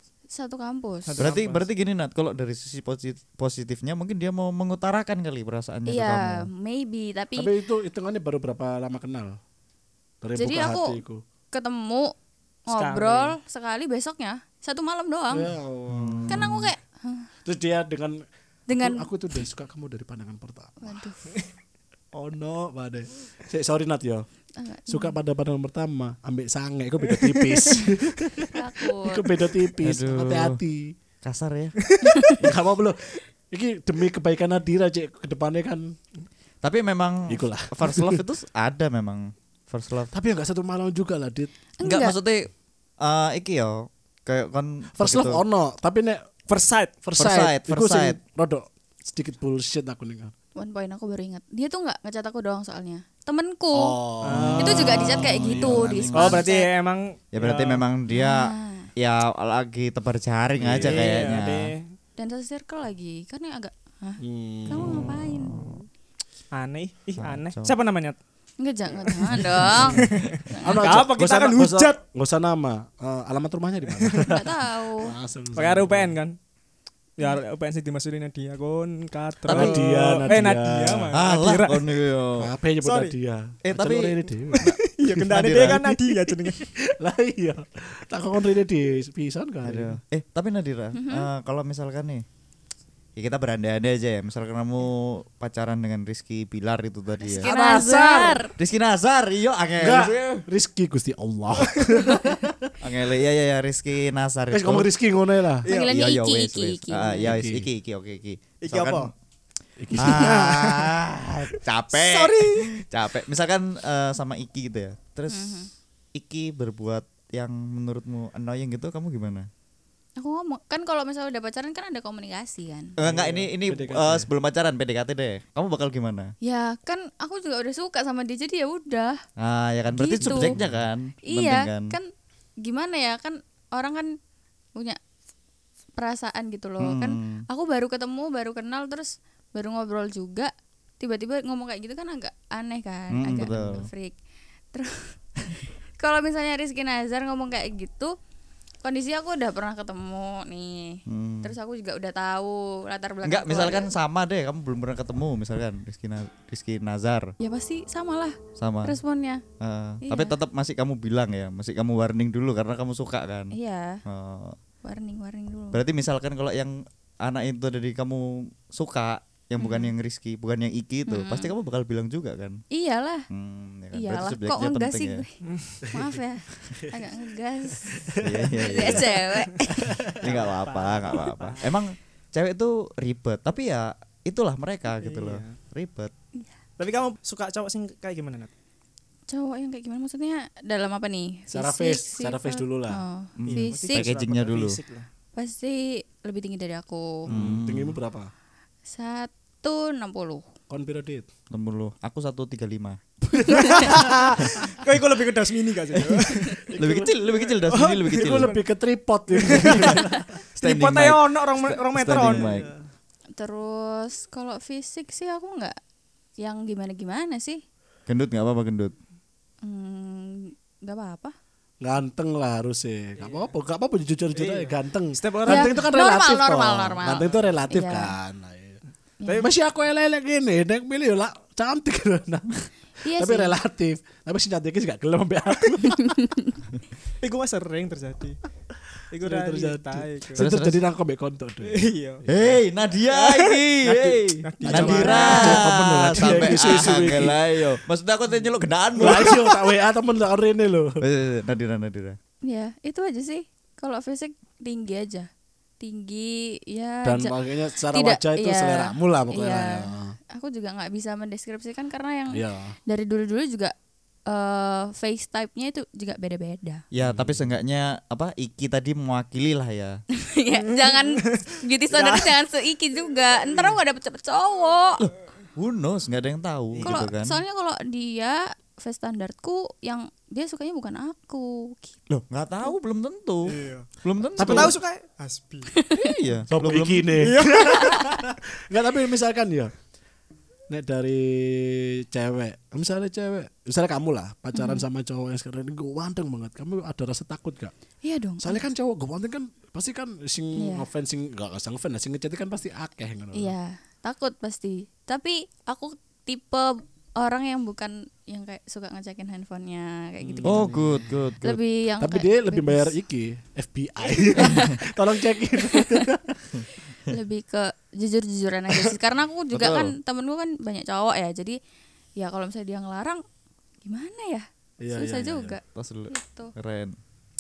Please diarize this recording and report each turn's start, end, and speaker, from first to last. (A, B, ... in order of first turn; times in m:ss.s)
0:00.3-0:01.2 A
0:01.1-0:01.7 B
0:01.2-0:06.5 C
0:05.9-0:07.5 A
0:07.4-0:09.4 D
0:10.2-0:11.2 D
0:10.4-0:11.0 A
0:11.5-0:12.1 A
0:12.7-0:15.5 A
0:12.7-0:13.4 B
0:15.3-0:16.5 D
0:15.9-0:16.7 C
0:16.3-0:17.3 A
0:17.4-0:20.8 D
0:18.7-0:19.1 A
0:20.8-0:21.3 A
0:22.2-0:24.3 D
0:24.6-0:25.2 A
0:24.9-0:30.9 D
0:27.1-0:27.9 B
0:28.5-0:29.3 A
0:29.8-0:30.6 C
0:31.2-0:31.8 C
0:32.0-0:32.4 A
0:32.4-0:36.0 D
0:36.6-0:40.1 C
0:37.3-0:38.2 D
0:40.1-0:41.5 D
0:41.8-0:42.2 A
0:41.8-0:45.4 C
0:45.0-0:46.2 D
0:46.5-0:46.9 B
0:47.0-0:50.3 D
0:47.2-0:48.2 C
0:50.6-0:54.0 A
0:53.7-0:56.4 D
0:54.2-0:55.2 B
0:54.6-0:56.7 A
0:55.1-0:56.4 C
0:56.1-0:57.8 B
0:57.3-1:01.7 C
0:58.1-0:58.9 A
1:00.6-1:01.3 D
1:00.8-1:01.9 B
1:02.2-1:05.7 A
1:04.2-1:05.1 D
1:04.7-1:05.8 C
1:06.5-1:08.2 B
1:07.2-1:07.7 C
1:08.6-1:10.9 A
1:09.1-1:12.0 B
1:09.4-1:10.4 C
1:09.7-1:16.1 D
1:14.0-1:14.4 B
1:14.2-1:15.1 A
1:15.6-1:16.4 B
1:17.2-1:21.8 B
1:19.5-1:19.8 C
1:19.5-1:21.1 D
1:21.1-1:22.5 C
1:22.4-1:24.7 D
1:22.8-1:23.2 B
1:23.6-1:25.9 C
1:24.5-1:26.7 B
1:25.5-1:25.9 D
1:26.5-1:30.0 D
1:29.6-1:32.2 C
1:31.0-1:31.3 A
1:33.2-1:37.5 C
1:37.2-1:38.5 A
1:37.4-1:38.5 D
1:38.6-1:40.4 C
1:39.8-1:42.7 D
1:41.8-1:42.0 B
1:42.8-1:44.9 C
1:44.5-1:45.7 D
1:45.6-1:45.9 B
1:45.7-1:47.3 A
1:45.9-1:49.1 C
1:47.2-1:47.7 D
1:48.6-1:49.1 B
1:49.8-1:50.6 D
1:50.0-1:59.5 C
1:50.0-1:51.0 B
1:51.5-1:52.8 B
1:55.3-1:55.7 A
2:00.2-2:03.0 A
2:03.0-2:06.3 C
2:03.0-2:04.3 D
2:06.4-2:09.2 A
2:09.4-2:12.0 C
2:09.9-2:10.6 A
2:10.2-2:10.8 D
2:11.3-2:12.1 A
2:12.6-2:14.2 A
2:16.0-2:24.2 A
2:16.8-2:17.4 C
2:23.1-2:23.9 C
2:24.7-2:25.2 A
2:26.0-2:28.1 A
2:28.8-2:33.9 A
2:31.1-2:31.5 C
2:33.2-2:37.3 C
2:37.4-2:39.4 A
2:38.6-2:39.0 C
2:39.6-2:44.6 C
2:40.0-2:40.4 A
2:43.5-2:44.0 A
2:44.8-2:45.8 A
2:45.7-2:52.6 C
2:49.6-2:49.9 A
2:51.1-2:51.5 A
2:52.7-2:53.3 A
2:53.3-2:55.2 C
2:53.9-2:55.4 A
2:55.5-2:55.8 B
2:55.8-2:56.2 D
2:55.9-2:58.0 A
2:56.7-2:57.2 D
2:57.8-3:00.4 D
2:58.2-2:59.1 C
2:58.6-3:00.0 A
3:00.2-3:06.1 C
3:00.2-3:01.6 B
3:05.0-3:05.6 B
3:06.8-3:08.5 B
3:09.3-3:14.1 A
3:11.5-3:13.0 D
3:13.4-3:14.8 C
3:13.5-3:15.1 B
3:15.4-3:17.3 A
3:17.3-3:18.0 C
3:17.3-3:18.3 D
3:18.9-3:20.4 A
3:20.7-3:21.3 D
3:21.5-3:24.7 C
3:23.5-3:23.8 A
3:23.5-3:26.6 B
3:23.8-3:24.1 D
3:26.6-3:30.3 D
3:26.8-3:28.5 C
3:27.7-3:28.6 B
3:29.3-3:32.8 B
3:29.7-3:30.0 C
3:30.6-3:32.7 C
3:32.2-3:32.5 D
3:33.4-3:35.8 A
3:36.4-3:37.6 A
3:38.1-3:38.9 C
3:39.6-3:41.4 A
3:41.8-3:48.8 D
3:43.2-3:43.5 B
3:44.3-3:45.9 B
3:45.5-3:48.1 A
3:49.2-3:49.5 A
3:49.3-3:56.2 D
3:53.0-3:53.6 A
3:55.9-3:56.6 A
3:57.2-3:58.4 B
3:59.1-4:00.4 B
3:59.2-4:02.6 D
4:00.4-4:00.8 C
4:01.6-4:02.2 B
4:02.3-4:09.5 C
4:03.1-4:05.6 B
4:04.6-4:05.6 A
4:04.7-4:07.6 D
4:06.2-4:06.6 B
4:09.0-4:11.0 D
4:09.0-4:09.4 B
4:11.0-4:12.2 C
4:12.4-4:15.3 A
4:15.8-4:23.7 A
4:17.0-4:20.2 D
4:22.3-4:22.8 D
4:24.3-4:26.8 A
4:26.9-4:30.0 C
4:27.0-4:27.5 D
4:30.2-4:35.1 A
4:30.6-4:32.4 B
4:35.0-4:37.4 C
4:36.7-4:37.0 B
4:36.8-4:42.0 A
4:42.1-4:44.8 C
4:43.5-4:45.7 B
4:44.4-4:44.8 D
4:45.7-4:46.0 A
4:46.0-4:47.3 C
4:46.5-4:49.7 D
4:47.2-4:48.3 B
4:50.7-4:57.7 D
4:54.5-4:54.8 A
4:58.0-4:58.6 A
4:58.4-5:03.5 D
5:00.6-5:00.9 A
5:03.3-5:12.9 A
5:10.2-5:11.2 D
5:10.4-5:11.6 C
5:12.0-5:16.6 D
5:14.4-5:14.8 A
5:15.7-5:16.0 A
5:17.1-5:21.6 A
5:19.5-5:19.9 C
5:22.2-5:23.2 A
5:23.8-5:26.5 A
5:24.8-5:25.6 D
5:25.7-5:27.0 C